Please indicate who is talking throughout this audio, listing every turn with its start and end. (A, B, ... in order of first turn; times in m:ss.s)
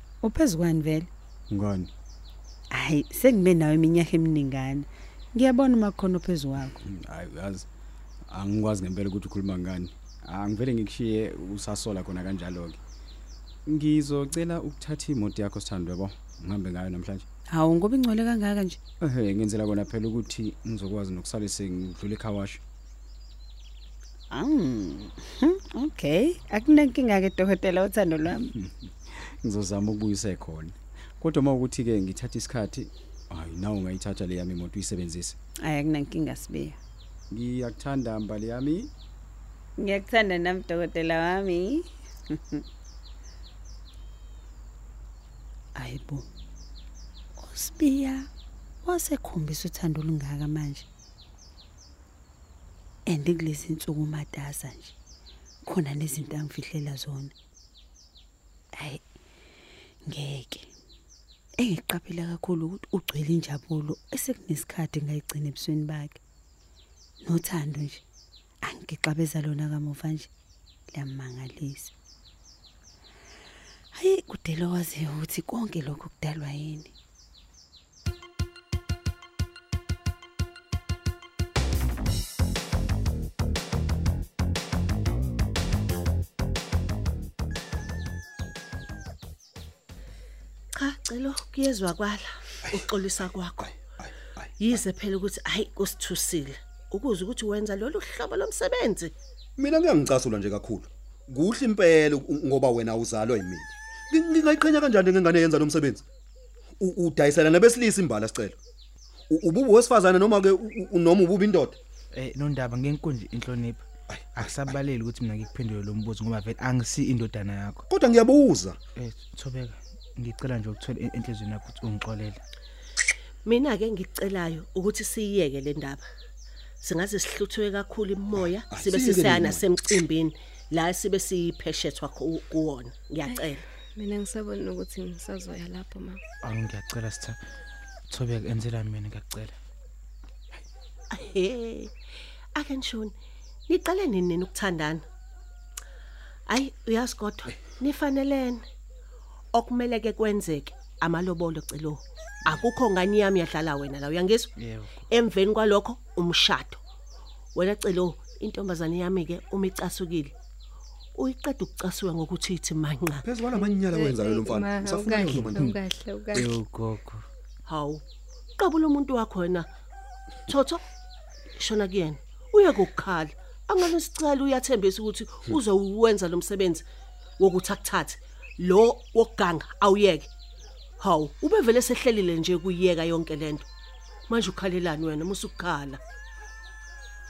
0:00.2-0:01.1 A
0:01.5-0:01.9 B
0:02.7-0:06.7 A
0:06.6-0:07.7 B
0:08.3-0:12.8 B
0:13.6-0:17.2 B
0:17.5-0:18.8 A
0:19.0-0:22.6 B
0:24.3-0:28.5 A
0:28.4-0:35.4 B
0:35.6-0:36.8 A
0:37.3-0:38.9 B
0:39.8-0:42.6 A
0:45.8-0:46.2 A
0:47.4-0:48.3 A
0:48.8-0:50.8 A
0:53.1-0:54.9 A
0:55.6-0:57.3 A
1:00.1-1:00.7 A
1:01.6-1:06.2 A
1:07.2-1:08.0 A
1:08.6-1:10.3 A
1:10.9-1:11.9 A
1:13.9-1:16.9 A
1:30.8-1:33.8 C
1:33.7-1:34.1 D
1:34.6-1:39.1 C
1:39.6-1:46.0 D
1:46.8-1:48.6 D
1:49.3-1:51.8 D
1:52.1-1:57.8 E
1:54.1-1:54.7 D
1:57.9-1:58.8 D
1:59.0-2:02.4 E
2:03.4-2:06.0 C
2:06.8-2:13.6 C
2:08.7-2:09.6 D
2:13.2-2:16.2 F
2:16.4-2:17.4 E
2:18.1-2:19.5 E
2:21.1-2:21.9 C
2:22.5-2:23.1 C
2:23.7-2:25.0 C
2:26.5-2:28.6 C
2:29.5-2:34.5 C
2:34.6-2:35.0 E
2:35.1-2:36.8 C
2:37.5-2:40.3 C
2:41.2-2:43.2 C
2:43.2-2:45.7 D
2:43.6-2:46.6 F
2:45.2-2:45.8 E
2:46.3-2:47.2 E
2:47.6-2:48.0 C
2:48.6-2:49.7 C
2:50.5-2:50.8 C
2:51.6-2:56.9 C
2:57.4-3:00.3 C
3:01.0-3:03.6 C
3:04.3-3:06.0 C